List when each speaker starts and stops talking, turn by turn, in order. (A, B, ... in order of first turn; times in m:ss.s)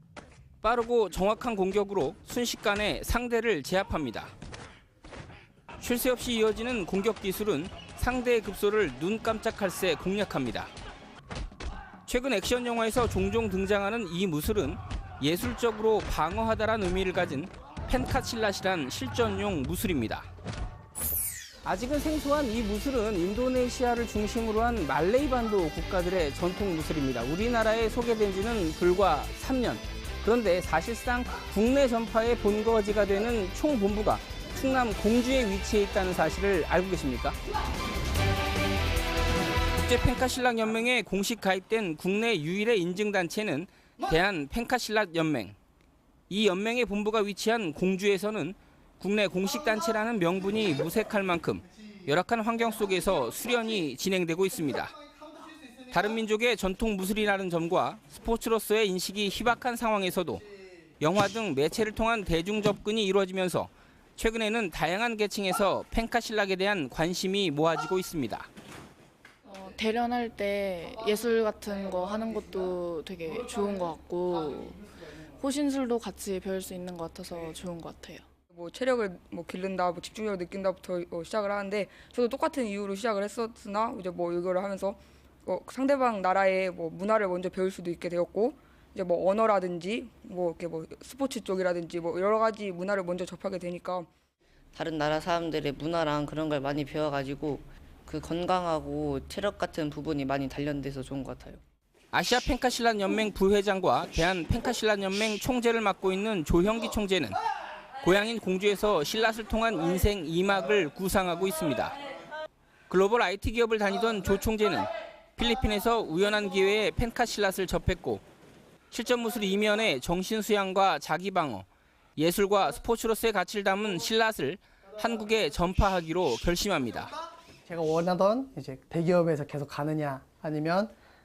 0:00.6-0:04.3 A
0:05.8-0:10.7 A
0:12.1-0:20.3 A
0:21.6-0:37.4 A
0:39.8-0:45.6 A
0:46.3-0:54.9 A
0:55.9-1:00.4 A
1:01.0-1:08.5 A
1:09.5-1:18.2 B
1:18.5-1:34.1 C
1:34.7-1:41.6 D
1:42.1-1:47.4 A
1:48.0-1:52.0 A
1:52.9-1:58.2 A
1:58.9-2:07.1 A
2:07.7-2:10.9 E